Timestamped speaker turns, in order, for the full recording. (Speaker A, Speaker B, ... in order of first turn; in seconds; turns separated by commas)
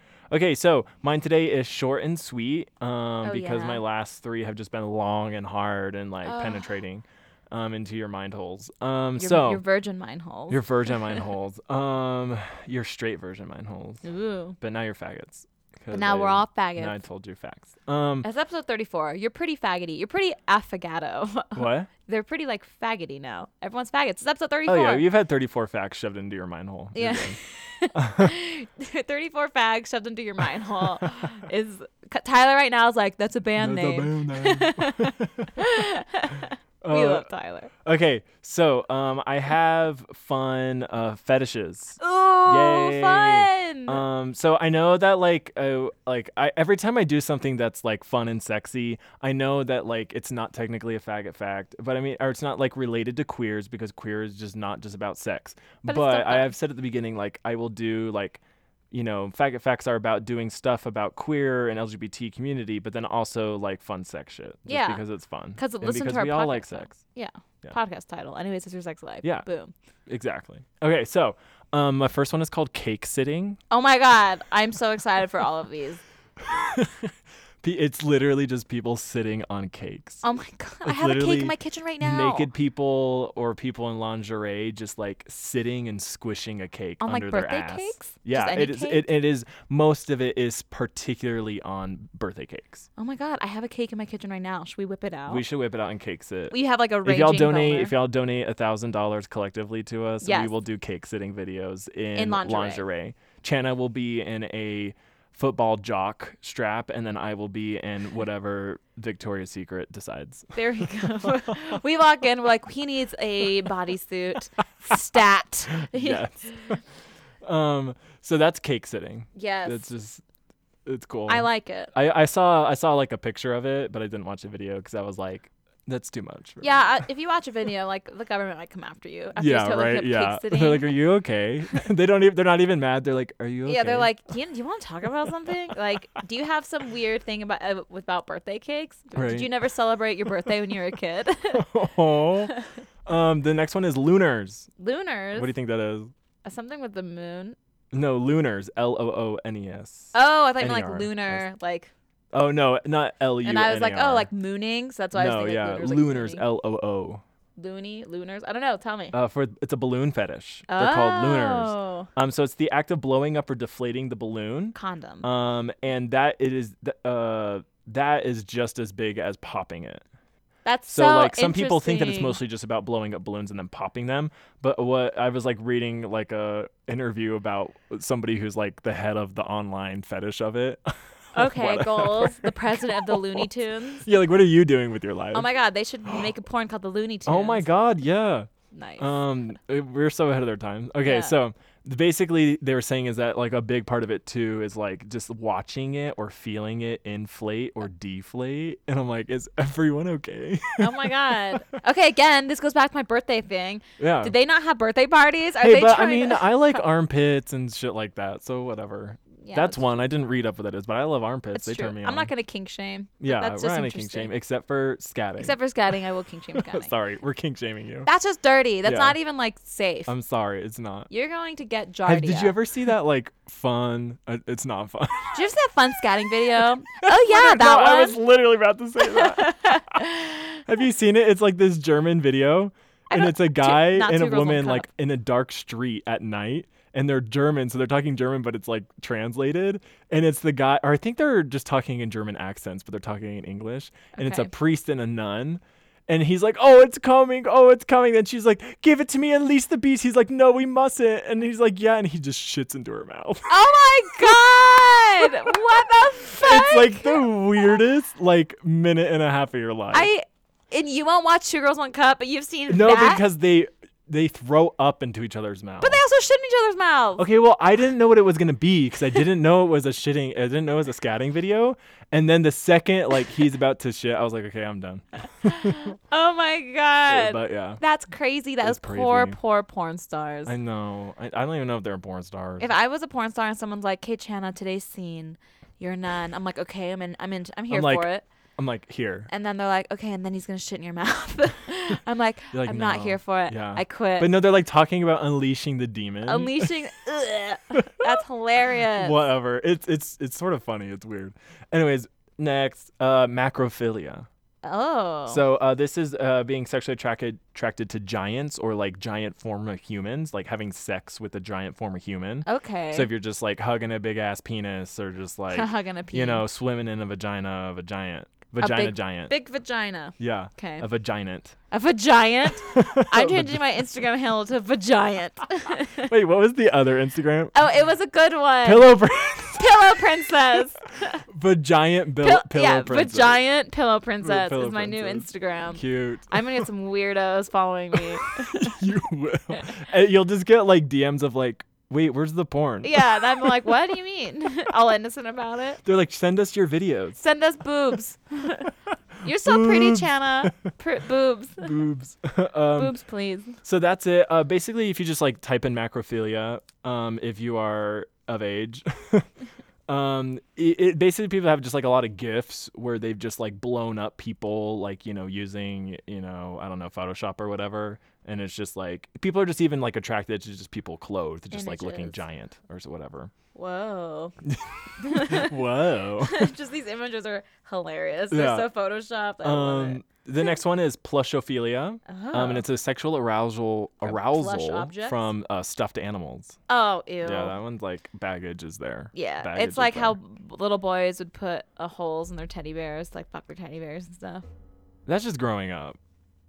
Speaker A: 0.3-9.6, Speaker B: 3.2-3.8, Speaker B: 6.2-6.8, Speaker B: 9.2-11.2, Speaker A: 10.5-14.0, Speaker B: 14.0-14.6, Speaker A: 14.6-18.3, Speaker B: 15.9-17.0, Speaker B: 18.2-25.0, Speaker A: 21.6-21.9, Speaker A: 24.7-27.4, Speaker B: 26.9-37.7, Speaker A: 27.9-28.3, Speaker A: 33.6-35.5, Speaker A: 36.8-37.3, Speaker A: 37.8-67.0, Speaker B: 42.0-44.0, Speaker B: 55.9-56.5, Speaker B: 64.7-65.0, Speaker B: 65.5-69.7, Speaker A: 70.1-73.6, Speaker B: 73.7-76.0, Speaker A: 76.4-80.2, Speaker B: 80.2-82.5, Speaker A: 80.8-92.8, Speaker B: 87.0-89.0, Speaker B: 93.0-95.4, Speaker A: 95.3-110.8, Speaker B: 96.5-97.9, Speaker B: 100.2-100.5, Speaker B: 102.1-102.8, Speaker B: 110.5-116.7, Speaker A: 115.8-116.8, Speaker A: 117.4-120.2, Speaker B: 119.3-119.9, Speaker A: 120.8-127.0, Speaker B: 121.3-121.9, Speaker B: 126.6-130.9, Speaker A: 129.3-134.1, Speaker B: 133.6-141.7, Speaker A: 139.2-139.5, Speaker A: 141.5-144.7, Speaker B: 142.5-142.8, Speaker B: 144.8-145.5, Speaker A: 145.3-146.1, Speaker B: 146.4-147.6, Speaker A: 147.9-151.4, Speaker B: 150.1-151.9, Speaker A: 152.3-154.3, Speaker B: 153.4-156.4, Speaker A: 155.1-157.2, Speaker B: 157.6-159.1, Speaker A: 159.1-170.0, Speaker B: 160.7-162.1, Speaker B: 164.7-165.2, Speaker B: 170.6-172.4, Speaker A: 170.9-183.5, Speaker B: 181.3-184.1, Speaker A: 184.0-185.5, Speaker B: 185.3-187.7, Speaker A: 187.2-201.6, Speaker B: 188.7-189.1, Speaker B: 191.1-191.3, Speaker B: 200.8-206.8, Speaker A: 204.0-204.3, Speaker A: 205.6-212.3, Speaker B: 209.4-209.9, Speaker B: 211.5-214.3, Speaker A: 213.2-215.6, Speaker B: 215.4-216.9, Speaker A: 216.5-218.1, Speaker B: 218.0-220.1, Speaker A: 218.8-219.2, Speaker A: 220.1-221.1, Speaker B: 221.1-222.6, Speaker A: 222.1-225.4, Speaker B: 225.3-228.2, Speaker A: 227.0-253.6, Speaker B: 229.0-230.6, Speaker B: 233.1-234.9, Speaker B: 244.2-244.5, Speaker B: 253.5-257.2, Speaker A: 254.2-260.1, Speaker B: 259.9-263.2, Speaker A: 262.7-266.0, Speaker B: 265.8-267.2, Speaker A: 267.2-275.9, Speaker B: 275.4-280.5, Speaker A: 277.1-277.8, Speaker A: 278.6-279.4, Speaker A: 280.4-282.7, Speaker B: 282.6-288.2, Speaker A: 287.7-289.3, Speaker B: 289.3-294.4, Speaker A: 292.5-296.8, Speaker B: 296.2-299.1, Speaker A: 297.7-298.1, Speaker A: 299.0-304.3, Speaker B: 304.6-305.4, Speaker A: 305.3-319.3, Speaker B: 312.4-313.1, Speaker B: 315.5-316.4, Speaker B: 318.6-320.9, Speaker A: 320.2-321.5, Speaker B: 321.7-326.1, Speaker A: 322.5-323.8, Speaker A: 326.0-327.5, Speaker B: 327.5-328.9, Speaker A: 328.6-330.0, Speaker B: 329.6-331.2, Speaker A: 331.3-333.4, Speaker B: 332.2-338.8, Speaker A: 334.2-336.6, Speaker A: 338.2-343.7, Speaker B: 342.8-345.8, Speaker A: 345.8-347.2, Speaker B: 347.2-351.7, Speaker A: 349.3-350.5, Speaker A: 351.6-352.9, Speaker B: 352.7-353.6, Speaker A: 353.6-359.3, Speaker A: 359.9-373.3, Speaker B: 371.5-372.2, Speaker B: 373.5-374.3, Speaker A: 374.4-376.5, Speaker B: 375.0-375.5, Speaker B: 376.2-380.0, Speaker A: 378.3-378.7, Speaker A: 379.4-386.6, Speaker B: 382.1-382.6, Speaker B: 384.0-385.3, Speaker B: 386.7-387.5, Speaker A: 387.2-390.2, Speaker B: 389.1-394.4, Speaker A: 395.1-396.0